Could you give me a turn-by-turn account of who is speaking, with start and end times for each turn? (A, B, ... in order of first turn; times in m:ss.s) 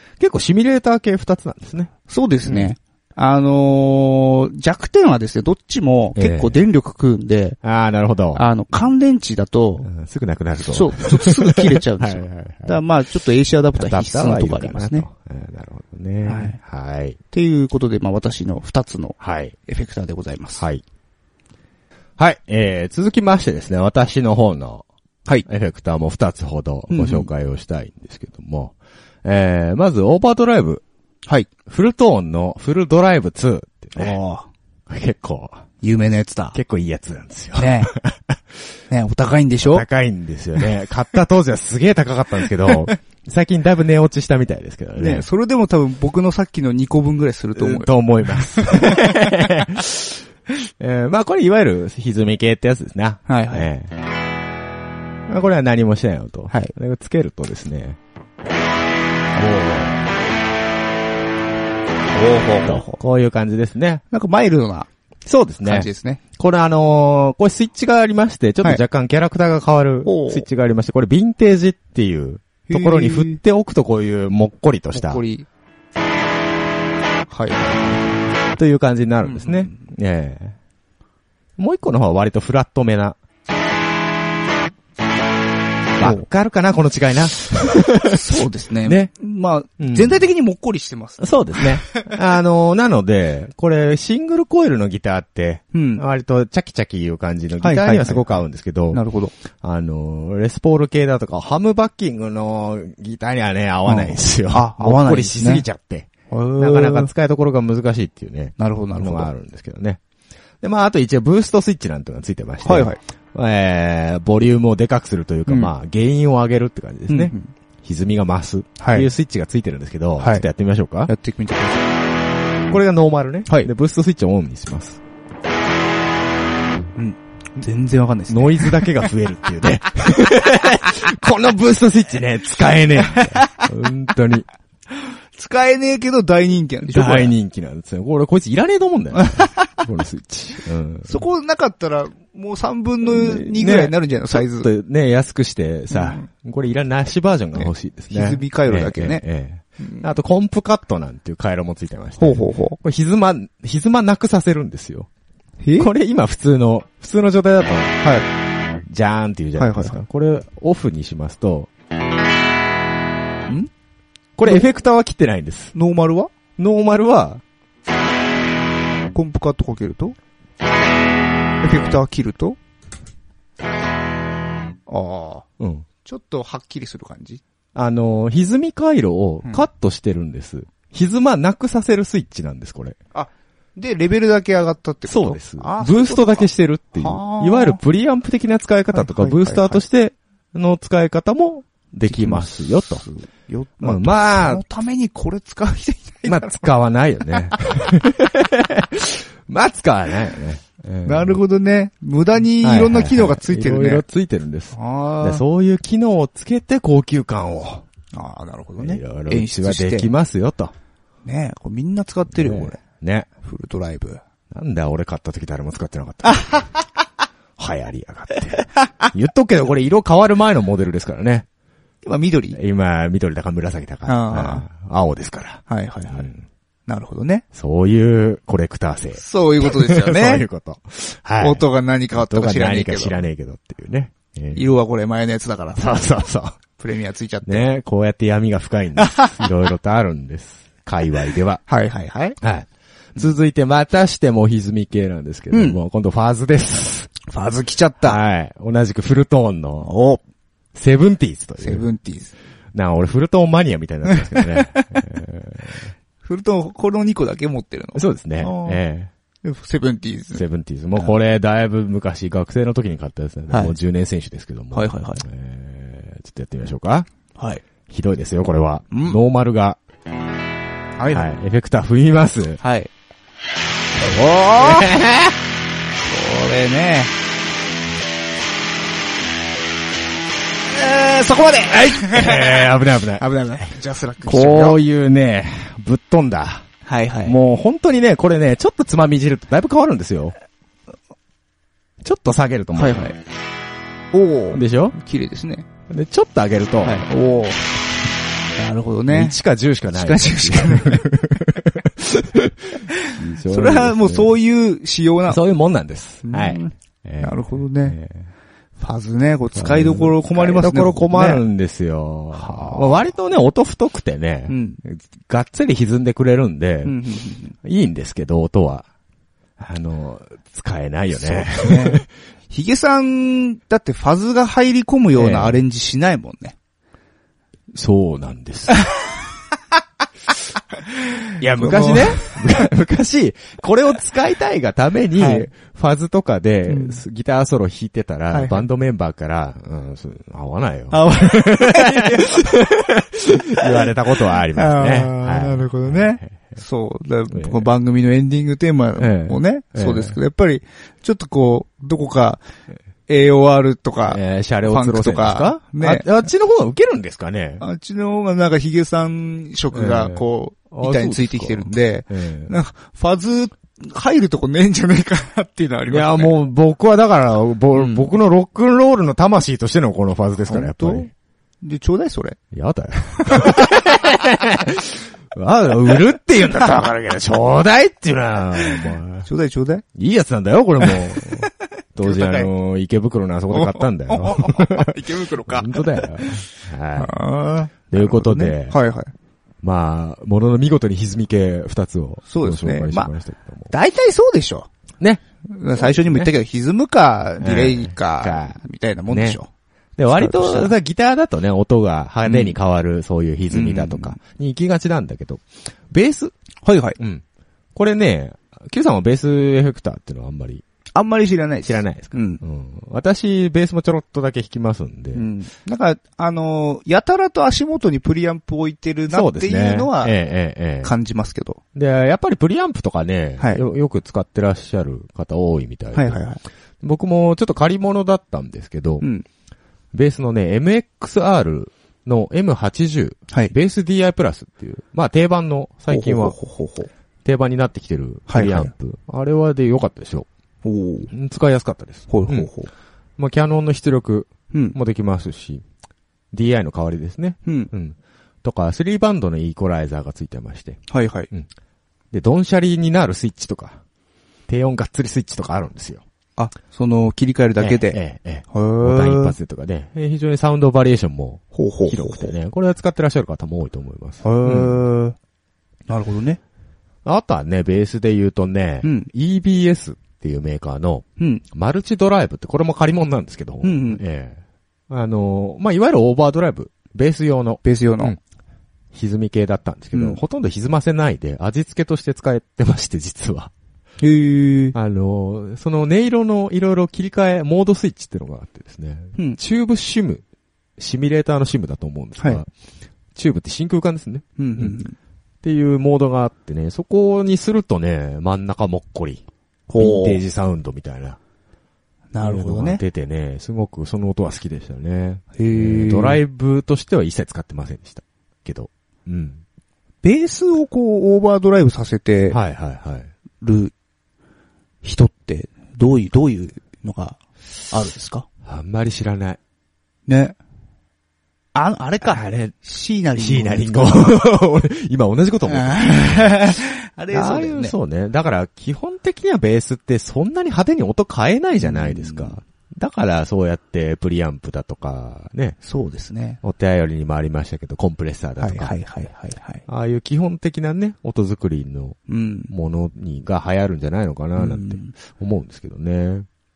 0:00.2-0:01.9 A
0:02.1-0:07.6 B
0:02.5-0:02.7 A
0:06.2-0:06.6 A
0:07.6-0:08.4 A
0:08.4-0:09.9 B
0:09.8-0:12.8 A
0:10.6-0:15.1 B
0:13.8-0:17.2 A
0:16.3-0:16.6 B
0:17.3-0:20.6 B
0:19.2-0:19.6 A
0:20.6-0:20.8 A
0:22.2-0:24.8 A
0:25.4-0:30.8 A
0:26.9-0:27.3 B
0:31.7-0:34.2 A
0:34.0-0:34.5 B
0:34.9-0:35.6 A
0:35.8-0:36.6 B
0:36.5-0:38.4 A
0:37.6-0:37.9 B
0:38.9-0:39.8 B
0:39.6-0:45.3 A
0:45.0-0:49.4 B
0:47.6-0:50.2 A
0:50.8-0:53.9 A
0:53.3-0:53.7 B
0:55.3-0:58.0 A
0:59.4-0:59.9 A
1:02.1-1:03.0 B
1:02.6-1:04.0 A
1:04.1-1:04.9 B
1:05.3-1:15.2 A
1:05.6-1:06.2 B
1:10.0-1:10.5 B
1:12.7-1:13.4 B
1:14.9-1:15.5 B
1:17.3-1:18.2 B
1:18.6-1:20.6 A
1:19.2-1:19.8 B
1:21.6-1:23.2 A
1:26.0-1:28.2 A
1:27.9-1:32.0 B
1:28.8-1:29.1 A
1:29.8-1:30.3 A
1:31.2-1:39.0 A
1:35.7-1:36.0 B
1:37.6-1:38.3 B
1:38.9-1:39.3 B
1:39.6-1:50.0 A
1:43.9-1:45.6 B
1:46.3-1:47.1 B
1:48.6-1:49.3 B
1:50.6-2:01.1 A
1:52.6-1:53.0 B
1:55.5-1:55.7 B
1:57.1-1:57.5 B
1:58.8-1:59.1 B
2:00.2-2:00.4 B
2:01.1-2:01.9 B
2:02.7-2:05.0 A
2:07.0-2:08.9 B
2:08.3-2:14.5 A
2:13.0-2:13.5 B
2:15.0-2:17.3 B
2:16.9-2:21.2 A
2:19.2-2:19.4 B
2:21.1-2:24.7 B
2:23.0-2:35.1 A
2:25.9-2:26.2 B
2:27.6-2:29.2 B
2:29.8-2:30.1 B
2:32.2-2:32.8 B
2:35.6-2:35.9 B
2:35.8-2:38.0 A
2:38.9-2:41.7 A
2:39.6-2:40.0 B
2:44.4-2:45.8 A
2:45.8-2:46.3 B
2:46.6-2:47.4 A
2:49.1-2:50.2 B
2:51.6-2:52.6 B
2:54.9-2:55.4 B
2:55.6-2:55.9 A
2:56.0-2:57.4 B
2:57.8-3:03.0 A
3:03.1-3:07.8 B
3:05.1-3:13.0 A
3:08.9-3:09.8 B
3:12.1-3:12.5 B
3:13.0-3:16.6 B
3:13.8-3:14.6 A
3:16.2-3:21.4 A
3:21.1-3:24.0 B
3:22.6-3:27.8 A
3:24.7-3:25.4 B
3:28.1-3:30.1 B
3:28.8-3:30.7 A
3:31.2-3:32.8 B
3:32.3-3:33.3 A
3:33.4-3:34.2 B
3:34.5-3:36.7 A
3:37.6-3:41.5 A
3:42.0-3:42.6 B
3:42.5-3:46.4 A
3:44.1-3:44.7 B
3:45.7-3:46.3 B
3:46.9-3:47.4 B
3:47.5-3:54.7 A
3:49.2-3:50.4 B
3:51.4-3:53.2 B
3:54.6-3:55.9 B
3:55.8-3:56.6 A
3:56.8-3:57.7 B
3:57.4-4:01.6 A
3:59.0-3:59.4 B
4:01.7-4:02.4 B
4:02.4-4:07.2 A
4:05.5-4:05.8 B
4:07.2-4:08.2 B
4:08.0-4:09.9 A
4:09.9-4:10.2 B
4:10.8-4:11.9 A
4:11.6-4:12.3 B
4:12.7-4:15.9 A
4:14.2-4:15.0 B
4:16.2-4:18.8 B
4:18.0-4:19.1 A
4:19.4-4:20.4 B
4:20.3-4:27.1 A
4:24.7-4:25.2 B
4:27.4-4:27.6 B
4:27.9-4:29.8 A
4:28.9-4:29.2 B
4:31.0-4:31.3 B
4:31.1-4:32.6 A
4:32.6-4:32.9 B
4:34.0-4:34.9 B
4:34.6-4:35.4 A
4:36.0-4:37.1 B
4:40.7-4:44.8 B
4:41.7-4:43.2 A
4:44.2-4:46.7 A
4:46.8-4:47.4 B
4:47.2-4:50.4 A
4:52.0-4:53.1 A
4:52.7-4:53.2 B
4:54.1-4:55.7 B
4:54.5-4:55.0 A
4:55.9-4:57.1 A
4:56.8-4:57.7 B
4:58.6-4:59.4 B
4:59.1-5:04.3 A
4:59.9-5:01.1 B
5:03.0-5:05.4 B
5:05.3-5:08.3 A
5:06.2-5:08.0 B
5:08.8-5:11.4 B
5:09.5-5:17.0 A
5:12.4-5:13.1 B
5:14.5-5:14.8 B
5:16.8-5:17.6 B
5:17.6-5:18.9 A
5:19.6-5:22.1 A
5:21.2-5:26.6 B
5:25.2-5:25.6 A
5:27.7-5:28.8 A
5:31.1-5:32.4 B
5:31.4-5:46.6 A
5:35.2-5:35.5 B
5:36.7-5:37.0 B
5:38.3-5:38.6 B
5:40.9-5:42.7 B
5:43.6-5:52.4 B
5:47.3-5:47.7 A
5:49.0-5:50.2 A
5:53.1-5:56.1 B
5:54.1-5:57.6 A
5:57.6-6:06.3 B
5:59.7-6:02.6 A
6:05.9-6:11.1 A
6:07.8-6:08.1 B
6:10.4-6:11.1 B
6:11.6-6:12.4 B
6:12.5-6:19.3 A
6:13.2-6:13.9 B
6:18.8-6:19.8 B
6:20.0-6:27.2 A
6:20.8-6:21.5 B
6:22.0-6:22.5 B
6:23.5-6:26.1 B
6:27.0-6:29.1 B
6:27.9-6:28.8 A
6:29.6-6:33.7 A
6:32.3-6:33.1 B
6:33.7-6:34.7 B
6:35.5-6:39.5 B
6:35.8-6:36.3 A
6:37.4-6:38.6 A
6:39.1-6:39.4 A
6:40.0-6:46.3 A
6:40.1-6:40.7 B
6:42.2-6:42.6 B
6:43.5-6:44.2 B
6:46.6-6:47.0 B
6:47.0-6:47.2 A
6:47.8-6:50.6 A
6:51.0-6:52.4 B
6:51.6-6:55.2 A
6:55.1-7:00.2 B
6:59.1-7:00.9 A
7:00.8-7:01.6 B
7:01.8-7:06.2 A
7:05.9-7:06.4 B
7:06.8-7:09.1 A
7:09.9-7:16.4 A
7:15.9-7:16.9 B
7:17.2-7:20.3 A
7:18.3-7:18.7 B
7:20.6-7:21.1 B
7:21.1-7:22.5 A
7:22.1-7:22.7 B
7:23.2-7:25.6 A
7:24.5-7:24.8 B
7:26.3-7:30.8 A
7:27.4-7:27.7 B
7:30.9-7:31.3 B
7:32.1-7:33.8 A
7:34.5-7:36.0 A
7:36.4-7:38.0 B
7:37.6-7:44.8 A
7:38.5-7:39.4 B
7:41.5-7:42.3 B
7:44.2-7:45.2 B
7:45.9-7:46.4 B
7:47.0-7:58.2 A
7:48.8-7:49.1 B
7:53.6-7:54.0 B
7:57.6-7:58.2 B
7:58.9-8:03.5 A
7:59.9-8:00.2 B
8:04.0-8:04.8 B
8:04.7-8:10.2 A
8:10.8-8:12.5 A
8:13.2-8:14.8 A
8:14.4-8:15.0 B
8:15.4-8:19.2 A
8:19.7-8:20.2 B
8:19.8-8:21.2 A
8:22.1-8:22.8 B
8:22.2-8:29.4 A
8:25.4-8:26.2 B
8:30.0-8:32.4 B
8:32.3-8:33.1 A
8:33.4-8:33.7 B
8:34.8-8:38.3 B
8:38.4-8:39.4 A
8:40.1-8:40.4 B
8:41.5-8:44.2 B
8:42.1-8:42.6 A
8:43.2-8:46.5 A
8:45.5-8:47.8 B
8:47.1-8:55.6 A
8:51.6-8:52.4 B
8:55.6-8:56.4 B
8:56.4-8:58.8 A
8:58.4-8:59.6 B
8:59.7-9:02.0 A
9:02.1-9:02.5 B
9:02.5-9:06.3 A
9:04.4-9:04.9 B